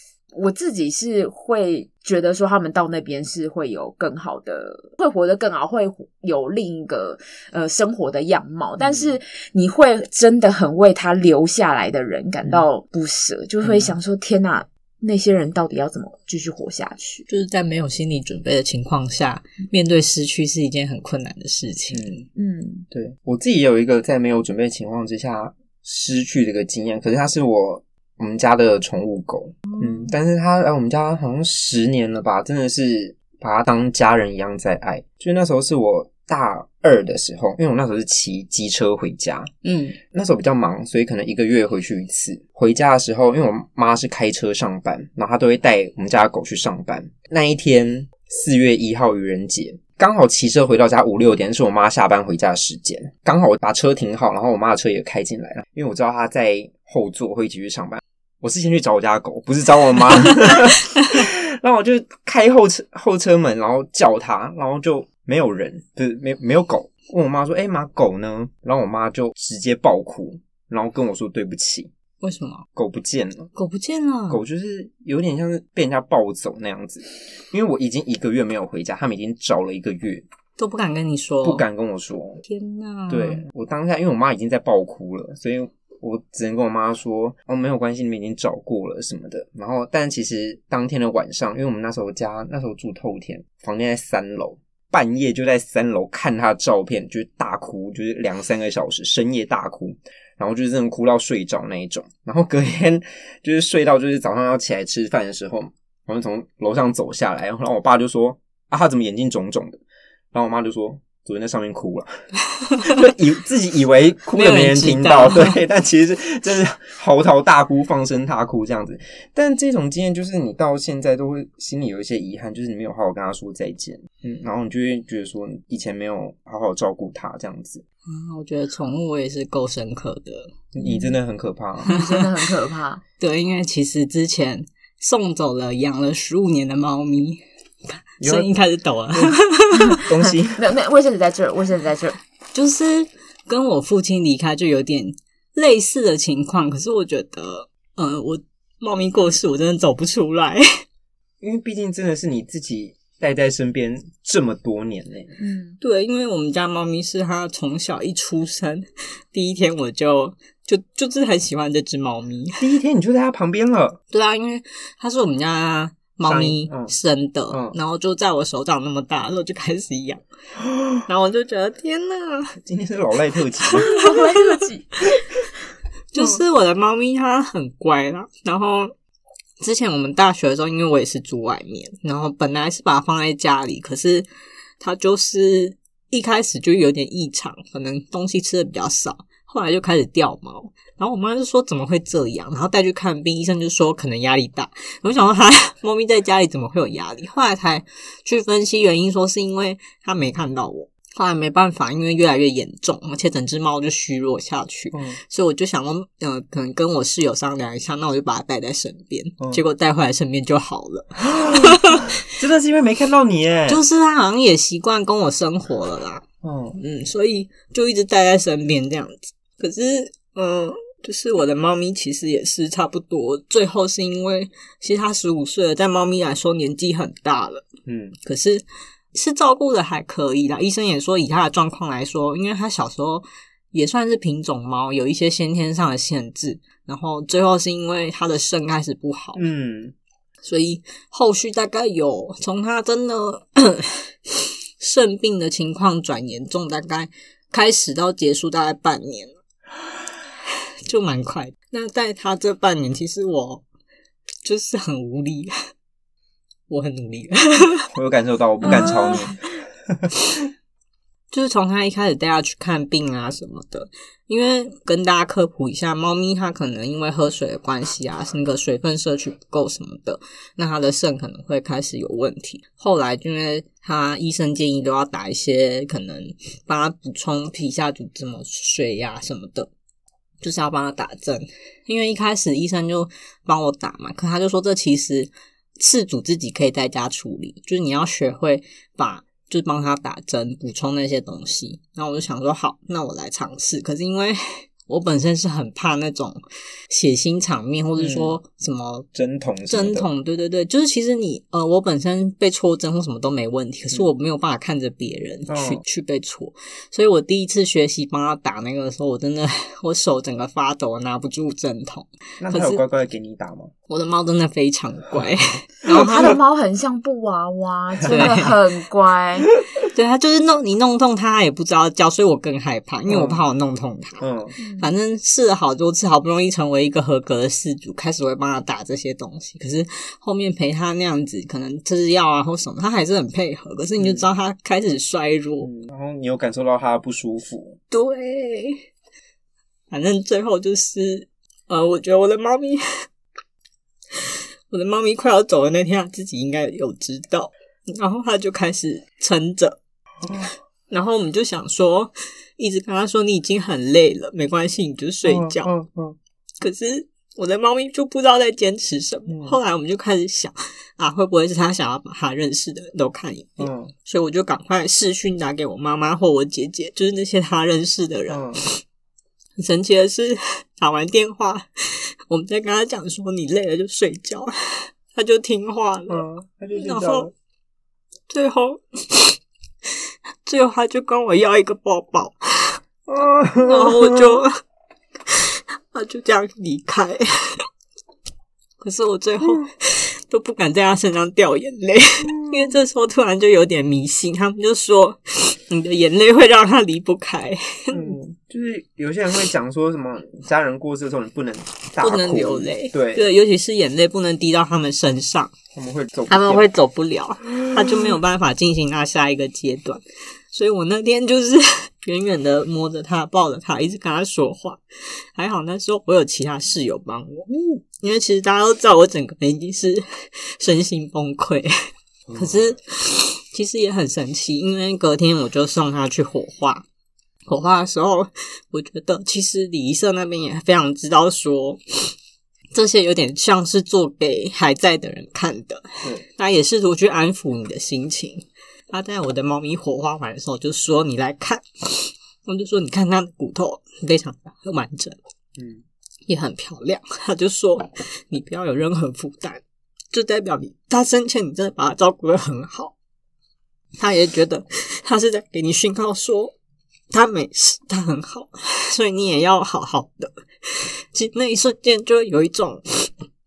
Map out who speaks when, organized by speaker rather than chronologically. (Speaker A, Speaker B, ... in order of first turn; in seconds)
Speaker A: 0.3-17.2, 22.4-22.9, 131.8-133.0, 140.6-142.2, 155.4-155.8, 173.7-174.9, 258.9-259.2, 315.9-319.5, 324.6-324.9
Speaker B: 8.8-9.1, 13.6-13.9, 21.9-22.3, 22.9-39.5, 40.1-71.9, 72.8-73.5, 74.3-80.2, 81.4-82.4, 83.1-109.8, 110.3-112.1, 112.8-127.8, 130.7-132.0, 138.2-138.5, 140.0-140.6, 151.4-155.3, 162.6-164.0, 166.2-166.9, 167.5-167.8, 172.6-173.9, 204.9-205.2, 211.2-213.8, 216.4-216.8, 227.9-228.2, 239.3-239.9, 257.9-260.1, 297.9-298.4, 299.1-300.1, 305.5-305.8, 312.4-313.7, 315.9-316.3, 318.0-318.4, 323.1-323.4, 324.2-324.6, 334.0-334.2, 335.6-337.8, 350.2-350.5, 355.2-356.2, 359.3-359.6, 363.6-363.9, 368.3-368.6, 376.1-377.3, 383.1-384.4, 389.4-389.7, 392.2-392.8, 397.9-403.3, 405.7-406.7, 417.5-417.8, 422.3-422.7, 445.6-445.8
Speaker C: 17.3-22.1, 29.7-30.1, 39.6-40.0, 72.2-72.6, 73.6-74.4, 80.6-81.6, 82.5-83.4, 114.3-115.6, 128.1-130.6, 133.2-140.1, 142.5-150.6, 155.8-162.7, 164.1-170.2, 171.0-172.6, 173.6-175.2, 176.1-178.9, 179.6-184.2, 184.8-212.2, 213.7-216.2, 216.8-227.7, 228.2-239.4, 240.4-249.4, 250.9-253.6, 254.4-255.5, 256.7-257.9, 258.6-259.4, 261.3-279.7, 280.4-299.1, 299.7-312.8, 313.9-316.4, 318.1-318.6, 319.8-324.2, 324.8-335.7, 337.9-338.8, 339.9-342.8, 344.1-349.8, 350.4-355.7, 356.6-368.8, 369.6-376.2, 376.7-377.3, 378.3-379.4, 380.4-382.8, 383.6-384.5, 385.3-387.6, 388.8-398.1, 402.0-405.5, 406.3-414.8, 415.4-417.5, 418.0-421.7, 422.3-426.9, 427.5-432.1, 432.7-445.2, 446.3-452.9, 454.0-456.5, 457.1-463.2